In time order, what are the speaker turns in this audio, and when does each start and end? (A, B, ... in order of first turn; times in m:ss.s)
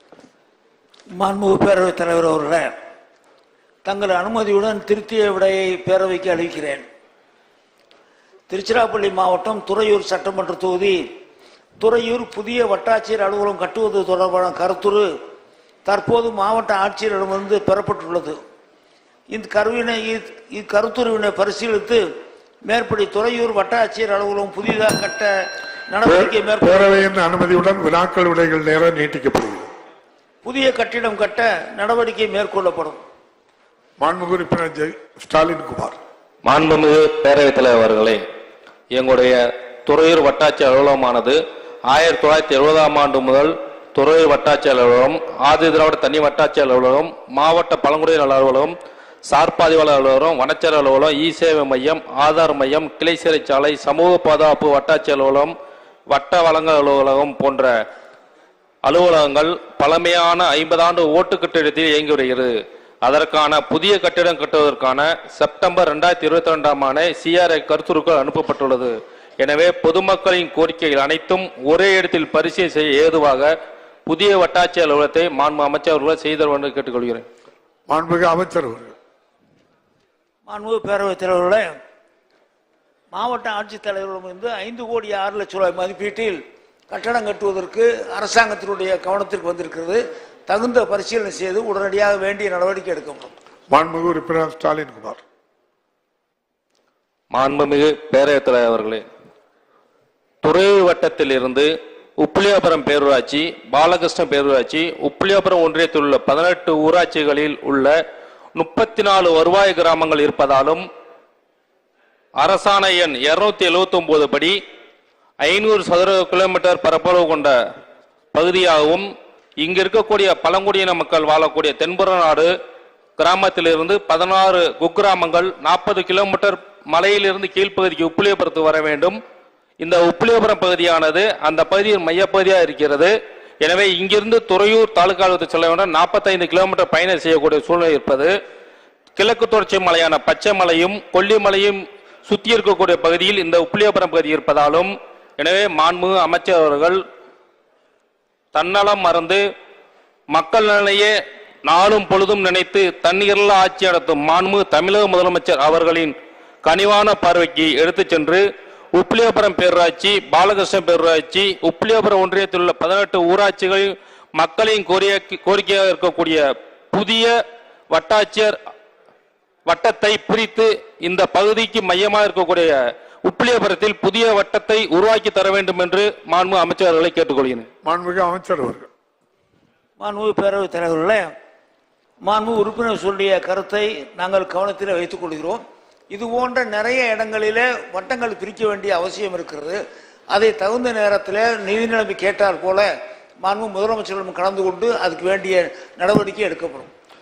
0:01.2-0:02.7 A
0:03.8-0:06.8 A
0:08.5-0:11.0 A
0:11.8-0:15.0 A
0:15.8-0:18.4 A
0:19.3-0:22.0 A
0:22.6-0:25.3 A
0:25.9-0:27.0 A
0:26.1-0:29.7 B
0:30.4-0:33.0 A
0:34.0-0:36.0 B
0:36.4-0:38.2 C
0:38.9-0:48.7 C
0:49.3-0:55.5 C
0:56.1-0:57.7 C
0:58.8-1:13.5 C
1:14.1-1:17.2 C
1:17.9-1:18.9 B
1:20.5-1:21.6 A
1:23.1-1:33.3 A
1:33.7-1:35.2 B
1:37.3-1:39.0 C
1:40.4-1:41.7 C
1:42.2-1:47.9 C
1:48.6-1:50.8 C
1:52.4-1:54.6 C
1:55.4-1:57.5 C
1:58.3-1:59.0 C
1:59.6-2:02.5 C
2:03.2-2:09.2 C
2:09.8-2:18.3 C
2:19.2-2:27.0 C
2:28.5-2:29.4 C
2:30.3-2:31.1 C
2:31.7-2:38.4 C
2:38.9-2:46.4 C
2:46.9-2:47.3 C
2:47.9-2:48.6 C
2:49.6-2:52.8 C
2:53.3-2:57.7 C
2:57.8-2:58.9 B
3:00.0-3:01.2 A
3:02.2-3:09.8 A
3:10.3-3:12.9 A
3:13.4-3:16.9 A